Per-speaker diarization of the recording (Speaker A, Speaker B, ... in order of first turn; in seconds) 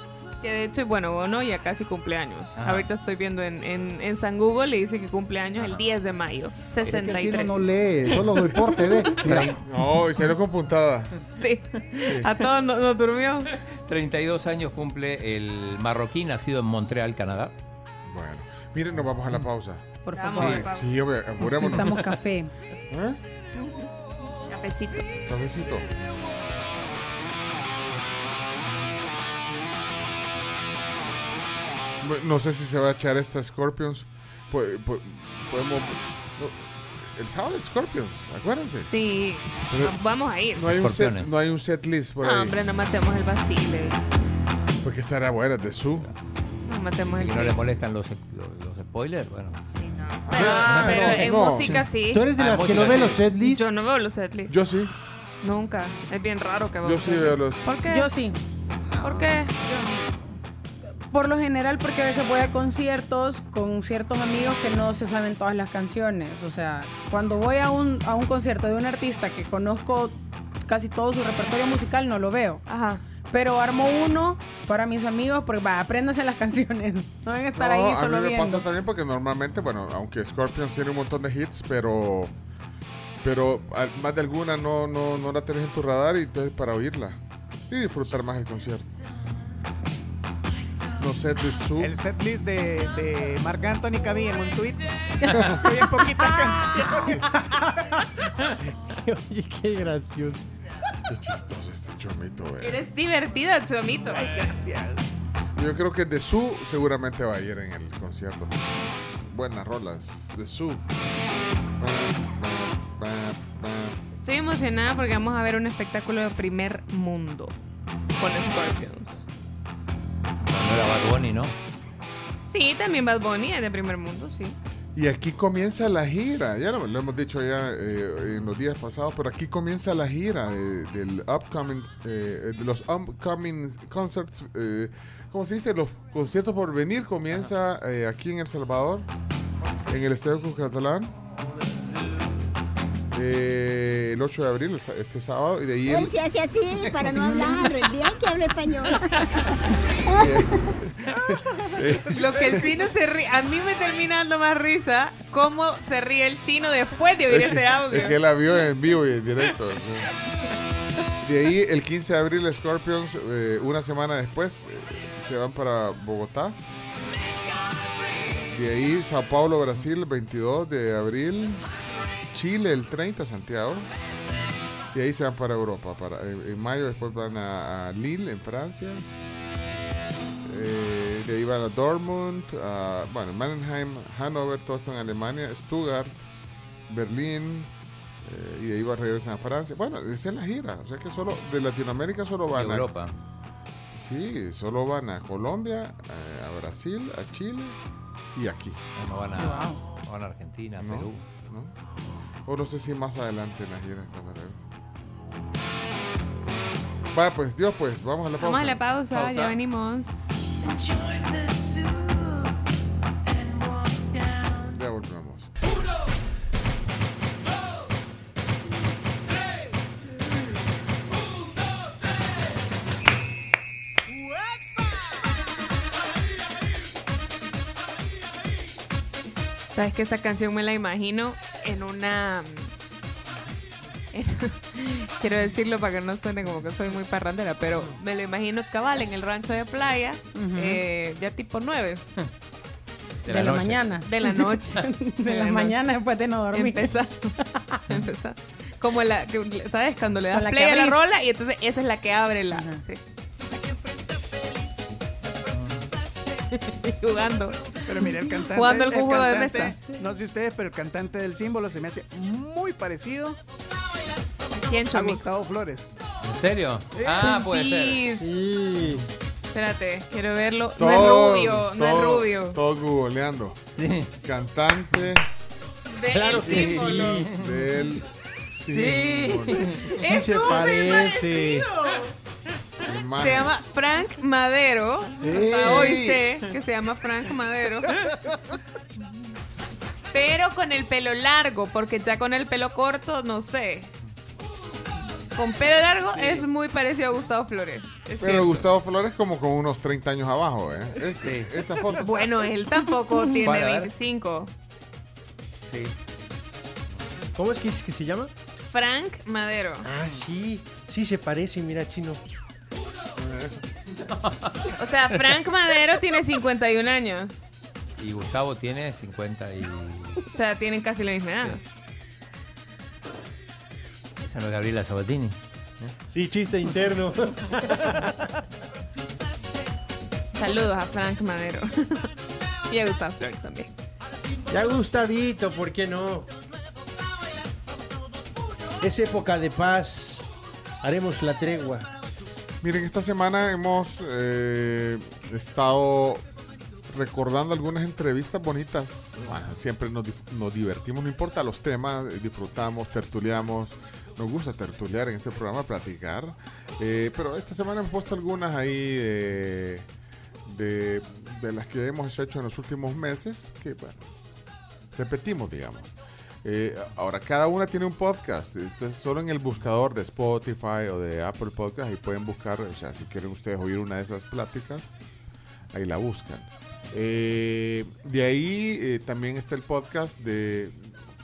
Speaker A: 0.4-7.7, 9.1-9.4, 11.4-13.5, 20.1-20.9, 23.6-23.9, 24.4-25.1, 38.8-40.6, 42.2-44.0, 46.6-47.6, 49.7-52.3, 53.3-54.6, 55.4-58.1, 59.0-59.8, 72.7-73.0, 102.6-104.5, 114.2-117.5, 118.2-119.2, 122.4-124.5, 152.1-158.2, 208.4-210.2, 229.7-232.7, 234.1-242.0, 244.0-245.9, 246.5-253.0, 257.0-257.8, 258.4-259.8, 264.5-265.3, 267.0-268.4, 269.5-272.6, 275.9-277.3, 279.9-282.0, 283.1-288.1, 290.1-293.9, 295.3-298.7, 301.9-304.5, 308.7-309.9, 314.8-317.5, 320.2-321.6, 330.3-332.1, 332.7-333.7
Speaker B: 2.5-2.9, 5.6-5.8, 9.1-9.6, 13.6-17.5, 20.4-20.6, 40.6-41.4, 47.1-49.6, 50.4-51.1, 52.3-53.2, 120.4-121.5, 146.8-147.2, 192.5-193.1, 198.9-201.2, 209.1-209.6, 243.2-244.0, 266.2-268.0, 273.8-274.1, 276.3-277.9, 278.7-280.0, 301.2-301.6, 303.4-303.9, 305.7-305.9, 314.1-314.7, 318.0-320.2, 324.2-325.9
Speaker C: 6.9-9.4
Speaker D: 9.3-11.2, 12.0-12.3, 18.1-19.9, 20.5-22.1, 22.9-23.2, 25.2-25.9, 32.0-38.9, 39.7-40.0, 40.5-42.6, 44.8-46.1, 50.2-51.8, 54.5-54.9, 56.8-57.7, 77.5-82.3, 83.2-87.2, 87.7-88.9, 91.0-92.0, 95.3-95.8, 101.1-102.8, 105.5-110.8, 111.8-114.0, 124.9-139.1, 139.9-141.1, 143.1-146.2, 150.1-152.7, 157.3-160.1, 161.2-166.6, 168.5-171.6, 172.3-173.9, 174.9-179.0, 180.4-186.2, 186.9-187.7, 188.2-192.9, 193.9-197.8, 198.3-198.8, 200.8-201.7, 202.4-204.6, 207.1-208.8, 214.7-215.5, 270.8-273.6, 274.2-275.2, 277.3-279.9, 282.8-283.5, 285.2-286.2, 298.2-302.1, 313.2-313.6, 342.6-346.2, 346.9-359.9, 360.4-364.0, 364.9-365.9, 366.4-374.9, 375.7-380.9
Speaker E: 20.0-20.7, 21.4-22.5, 57.9-58.4, 61.1-72.6, 73.2-78.6, 199.4-199.8, 240.3-240.8, 243.3-246.9, 250.3-251.0, 252.5-252.8
Speaker F: 52.1-53.7, 96.8-100.4, 268.2-269.1, 276.1-277.3, 279.7-281.7, 307.4-308.3, 309.8-312.2, 326.1-328.3, 334.5-336.3, 338.8-341.9
Speaker G: 91.8-97.3, 104.0-105.1, 257.9-263.4, 264.9-265.9
Speaker H: 145.8-149.4, 150.0-150.5